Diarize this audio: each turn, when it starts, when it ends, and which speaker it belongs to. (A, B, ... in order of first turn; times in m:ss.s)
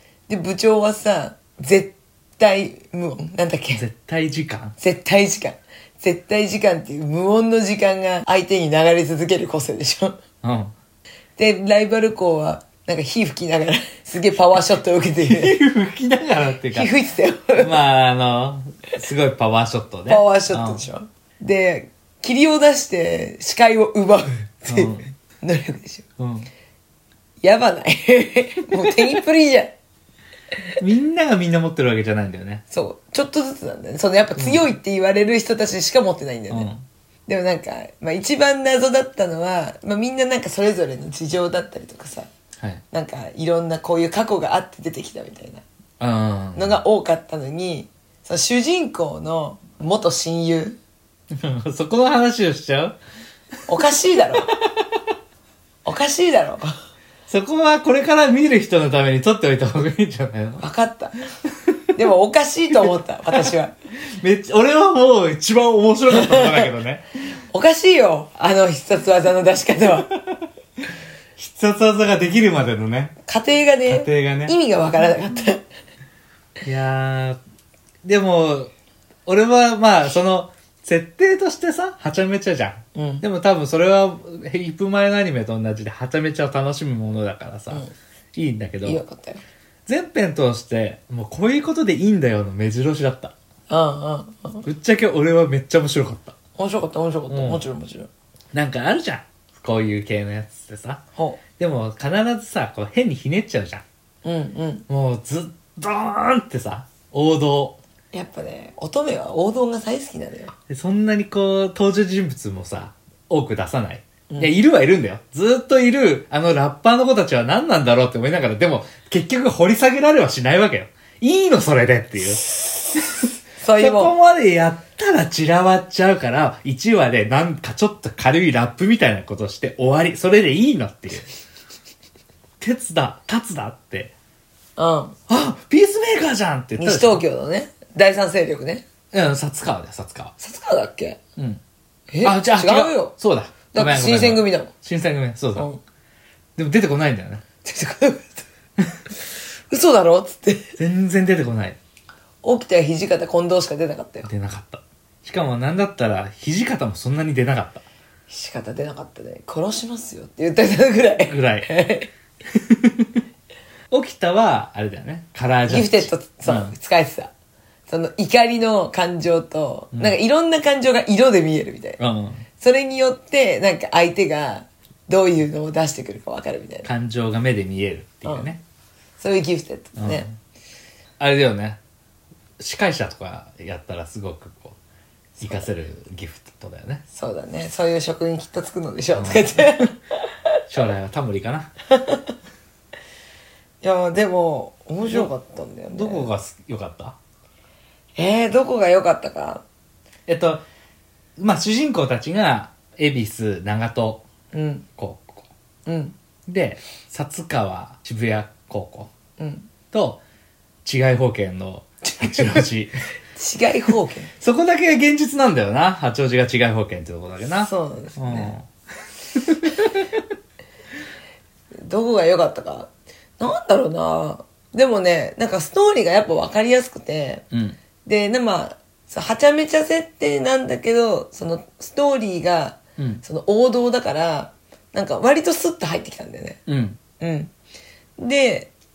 0:00.3-0:03.8 A
0:03.7-0:04.8 B
0:04.8-0:10.2 A
0:10.4-0:10.7 B
0:11.4-0:15.6 A
0:15.2-0:16.9 B
0:16.7-0:17.8 A
0:17.6-0:20.8 B
0:20.1-0:26.0 A
0:24.6-0:25.1 B
0:26.2-0:26.5 B
0:27.4-0:29.7 A
0:30.8-0:32.6 B
0:32.7-0:36.7 A
0:34.4-0:34.6 B
0:36.5-0:36.8 B
0:37.3-0:42.3 A
0:42.9-0:45.6 A
0:46.0-0:46.8 B
0:46.5-0:50.8 A
0:51.3-0:53.0 B
0:53.7-0:54.5 A
0:54.4-0:54.9 B
0:55.8-0:56.7 A
0:57.3-1:00.6 B
1:00.6-1:01.2 A
1:01.9-1:03.7 A
1:04.0-1:07.0 B
1:06.1-1:06.7 A
1:07.5-1:10.1 A
1:10.2-1:10.4 B
1:11.4-1:13.2 B
1:13.3-1:15.6 A
1:13.9-1:14.5 B
1:16.6-1:17.4 B
1:18.0-1:18.7 B
1:19.2-1:29.0 B
1:22.9-1:23.2 A
1:28.8-1:29.4 A
1:29.8-1:33.3 B
1:33.7-1:34.6 A
1:34.6-1:36.4 B
1:36.6-1:38.1 A
1:37.3-1:37.6 B
1:38.5-1:41.0 B
1:41.2-1:41.4 A
1:41.6-1:43.8 B
1:44.2-1:44.8 A
1:44.9-1:47.8 B
1:48.1-1:50.5 A
1:50.7-2:03.2 B
2:03.6-2:04.1 A
2:03.8-2:11.3 B
2:12.6-2:14.1 B
2:14.8-2:15.2 A
2:15.3-2:17.2 B
2:16.8-2:18.8 A
2:19.1-2:20.3 B
2:20.4-2:21.2 A
2:22.1-2:23.1 A
2:22.2-2:25.7 B
2:23.7-2:24.7 A
2:26.6-2:27.4 B
2:27.6-2:28.4 A
2:29.7-2:30.7 A
2:30.8-2:31.8 B
2:32.4-2:34.3 A
2:34.2-2:37.8 B
2:38.3-2:42.1 A
2:41.2-2:41.7 B
2:42.5-2:43.2 B
2:43.9-2:46.7 B
2:45.7-2:47.3 A
2:47.9-2:52.0 A
2:52.0-2:52.4 B
2:52.6-2:56.9 A
2:56.8-2:58.6 B
2:59.2-3:00.3 A
3:00.0-3:00.3 B
3:01.2-3:01.8 B
3:02.6-3:04.8 B
3:05.4-3:05.7 A
3:05.4-3:07.0 B
3:07.1-3:09.9 A
3:09.1-3:09.8 B
3:10.7-3:11.7 B
3:11.9-3:12.2 A
3:13.8-3:16.3 A
3:15.9-3:17.2 B
3:18.2-3:19.6 A
3:20.3-3:20.6 B
3:21.4-3:24.2 B
3:24.5-3:24.8 A
3:25.0-3:25.4 B
3:25.8-3:26.2 A
3:26.5-3:29.1 B
3:29.4-3:29.7 A
3:29.9-3:30.2 B
3:30.8-3:32.9 B
3:32.0-3:32.6 A
3:33.4-3:34.3 A
3:34.4-3:38.7 B
3:37.6-3:38.5 A
3:39.3-3:40.2 B
3:41.8-3:47.4 A
3:47.5-3:47.8 B
3:48.0-3:56.6 A
3:53.0-3:53.2 B
3:56.7-3:57.0 B
3:57.2-3:57.5 A
3:58.2-3:58.7 A